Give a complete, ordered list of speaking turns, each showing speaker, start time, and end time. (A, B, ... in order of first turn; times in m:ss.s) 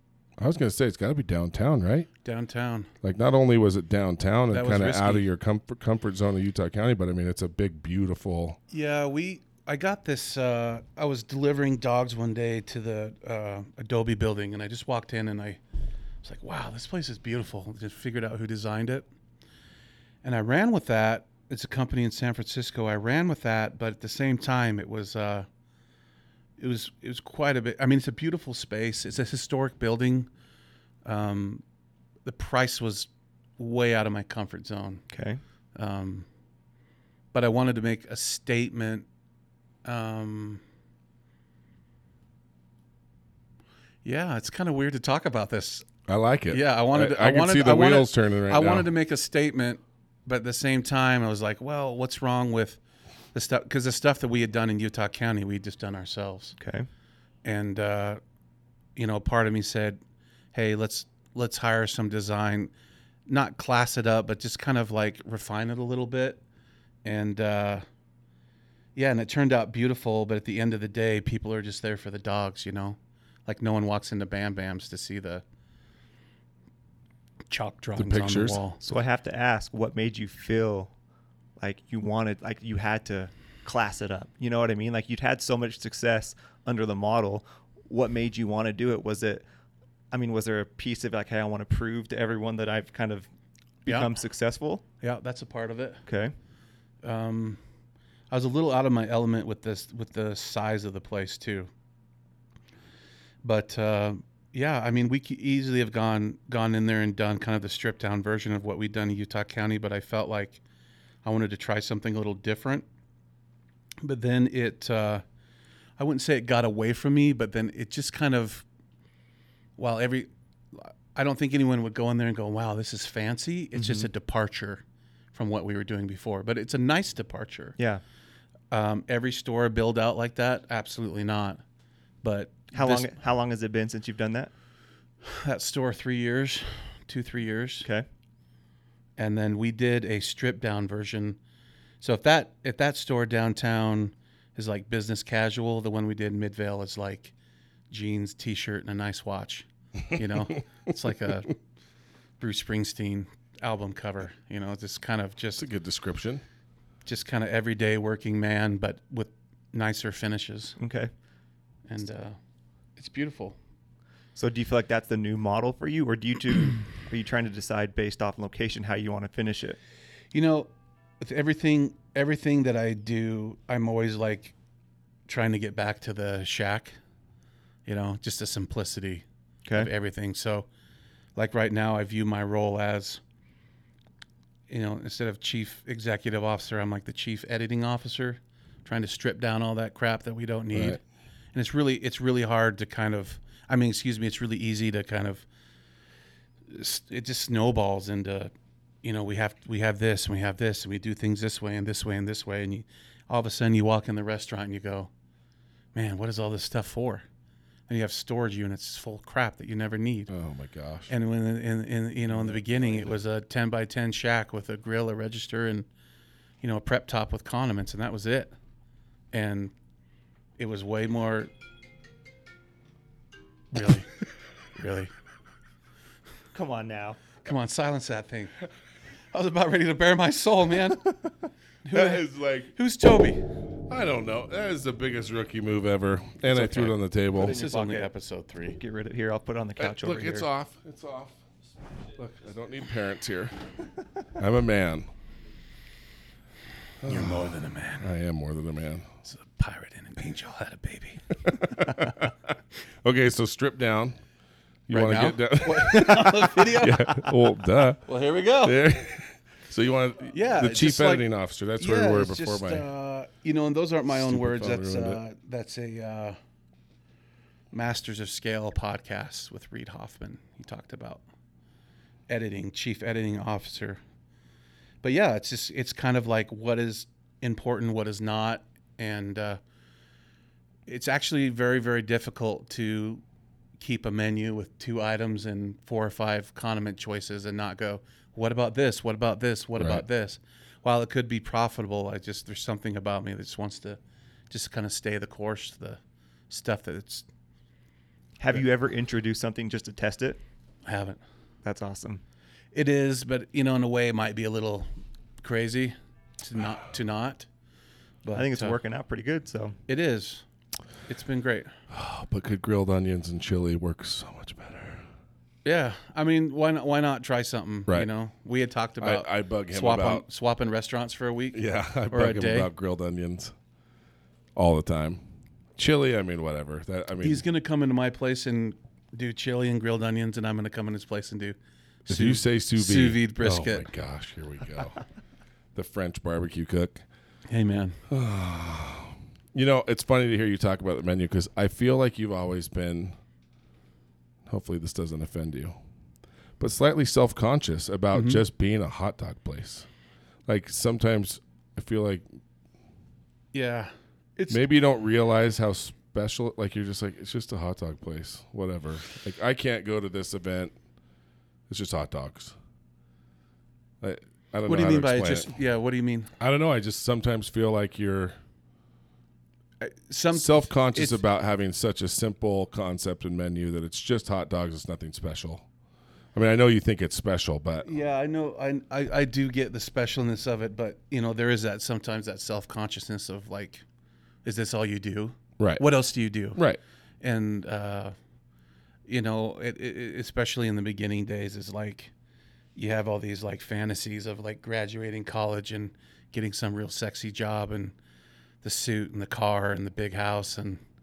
0:00.4-0:02.1 A
0:02.2-0:02.9 B
0:03.0-0:08.6 A
0:04.5-0:05.2 B
0:08.7-0:15.6 B
0:16.2-0:19.0 B
0:20.2-0:25.5 B
0:26.6-0:30.3 B
0:31.0-0:31.6 B
0:32.2-0:35.0 B
0:35.1-0:35.4 C
0:35.7-0:36.3 B
0:37.3-0:39.0 B
0:39.8-0:40.6 B
0:44.0-0:45.8 B
0:46.1-0:48.9 A
0:46.5-0:52.8 B
0:53.3-0:56.6 B
0:56.6-0:56.9 C
0:57.4-0:58.2 B
0:59.0-1:00.0 B
1:00.5-1:02.7 B
1:03.3-1:06.4 B
1:07.0-1:07.8 B
1:09.0-1:15.4 B
1:17.5-1:18.8 B
1:18.0-1:18.6 A
1:18.8-1:20.9 C
1:21.6-1:29.4 C
1:30.1-1:33.3 C
1:33.8-1:34.8 C
1:33.8-1:34.2 B
1:35.0-1:36.0 B
1:36.0-1:36.3 C
1:37.0-1:37.6 B
1:38.3-1:41.7 B
1:43.4-1:50.6 B
1:51.2-1:52.8 B
1:54.0-1:55.2 B
1:56.0-1:58.6 B
1:59.8-2:04.8 B
2:03.7-2:04.1 C
2:05.3-2:07.8 B
2:07.8-2:08.0 C
2:08.7-2:11.6 B
2:12.2-2:13.1 B
2:12.7-2:14.5 C
2:15.2-2:17.9 B
2:19.2-2:21.4 B
2:22.0-2:27.3 B
2:27.9-2:31.6 B
2:32.4-2:35.6 B
2:35.6-2:36.4 A
2:37.0-2:40.8 B
2:40.8-2:41.1 C
2:41.9-2:42.4 B
2:43.0-2:43.6 B
2:44.4-2:49.8 C
2:50.3-2:54.5 B
2:55.3-2:57.0 B
2:57.8-3:00.7 B
2:59.6-2:59.9 C
3:01.4-3:03.2 B
3:04.7-3:11.0 B
3:10.7-3:11.0 A
3:11.5-3:15.4 B
3:16.7-3:18.5 B
3:19.0-3:25.1 B
3:25.9-3:27.2 B
3:27.9-3:30.3 B
3:30.3-3:31.1 A
3:31.1-3:35.9 B
3:32.4-3:33.1 A
3:36.6-3:38.5 B
3:39.3-3:39.7 B
3:40.6-3:41.5 B
3:43.7-3:44.1 B
3:44.7-3:45.1 B
3:46.5-3:47.2 C
3:47.4-3:48.6 B
3:49.3-3:51.1 B
3:51.8-3:53.4 B
3:51.9-3:52.7 A
3:53.9-3:57.5 A
3:56.5-3:58.8 B
3:57.3-3:58.1 C
3:58.7-4:00.5 C
3:59.8-4:01.4 A
4:02.2-4:03.6 A
4:04.4-4:05.1 A
4:07.0-4:09.1 A
4:07.0-4:08.0 B
4:09.2-4:11.2 B
4:11.4-4:14.2 A
4:14.9-4:18.1 A
4:14.9-4:17.3 B
4:18.0-4:18.8 B
4:18.6-4:22.8 A
4:20.3-4:21.3 B
4:21.8-4:26.4 B
4:24.1-4:25.2 A
4:27.7-4:31.2 B
4:32.3-4:34.0 B
4:35.0-4:39.6 B
4:40.9-4:43.2 B
4:43.8-4:57.2 B
4:49.8-4:50.0 A
4:58.4-5:00.4 C
5:00.8-5:01.2 B
5:01.6-5:02.2 C
5:02.7-5:04.9 B
5:05.4-5:07.5 B
5:08.2-5:08.8 B
5:08.3-5:09.8 C
5:09.9-5:10.4 B
5:11.1-5:11.7 B
5:11.9-5:15.0 A
5:15.6-5:22.7 B
5:19.0-5:20.2 A
5:21.5-5:23.5 A
5:24.6-5:25.2 A
5:25.8-5:27.4 A
5:27.2-5:33.9 B
5:32.1-5:35.0 A
5:35.7-5:37.0 A
5:37.5-5:38.0 B
5:38.1-5:43.1 A
5:44.5-5:45.7 A
5:46.6-5:49.9 A
5:48.1-5:48.4 B
5:50.5-5:52.2 A
5:53.5-5:54.6 B
5:54.5-6:00.7 A
6:01.7-6:02.5 A
6:04.0-6:05.5 A
6:04.7-6:06.3 B
6:06.4-6:08.4 A
6:09.8-6:11.2 B
6:10.3-6:15.6 A
6:16.3-6:17.9 A
6:17.8-6:23.8 B
6:24.4-6:26.6 B
6:25.6-6:25.8 A
6:26.5-6:26.8 A
6:27.2-6:28.1 B
6:29.1-6:32.1 B
6:32.7-6:37.9 B
6:38.6-6:40.8 B